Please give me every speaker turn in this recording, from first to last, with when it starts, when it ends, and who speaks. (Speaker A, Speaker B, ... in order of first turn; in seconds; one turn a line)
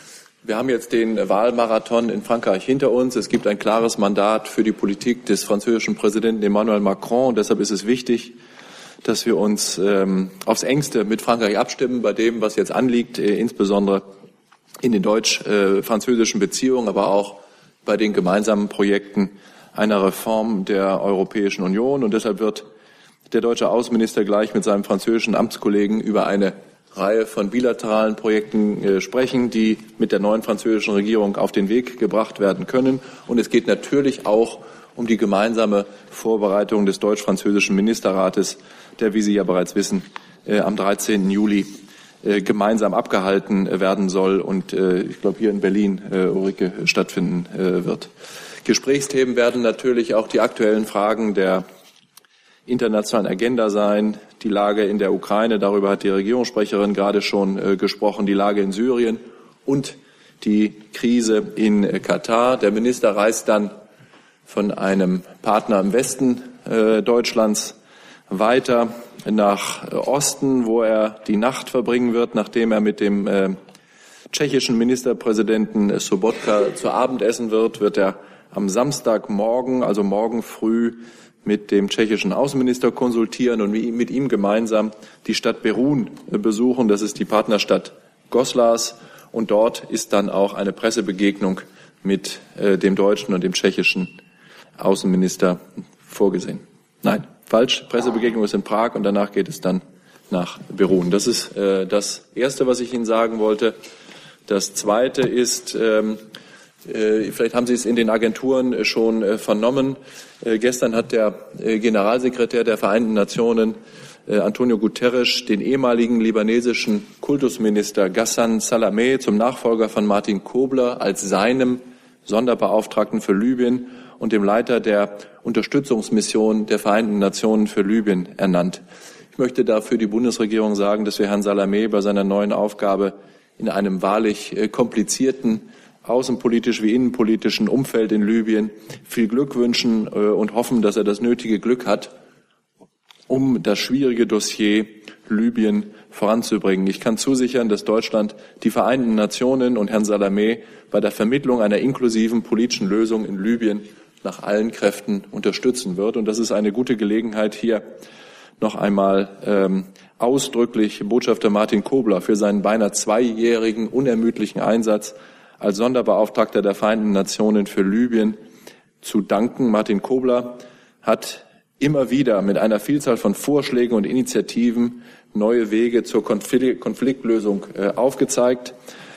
Speaker A: 0.4-8.4
Speaker A: 9.0-14.1
Speaker A: 14.8-22.7
Speaker A: 23.3-48.1
Speaker A: 48.6-51.6
Speaker A: 52.7-63.7
Speaker A: 64.5-67.8
Speaker A: 68.3-73.6
Speaker A: 74.3-94.2
Speaker A: 94.8-103.8
Speaker A: 104.5-106.2
Speaker A: 106.8-128.8
Speaker A: 129.3-142.1
Speaker A: 143.3-157.8
Speaker A: 158.6-168.4
Speaker A: 169.0-178.8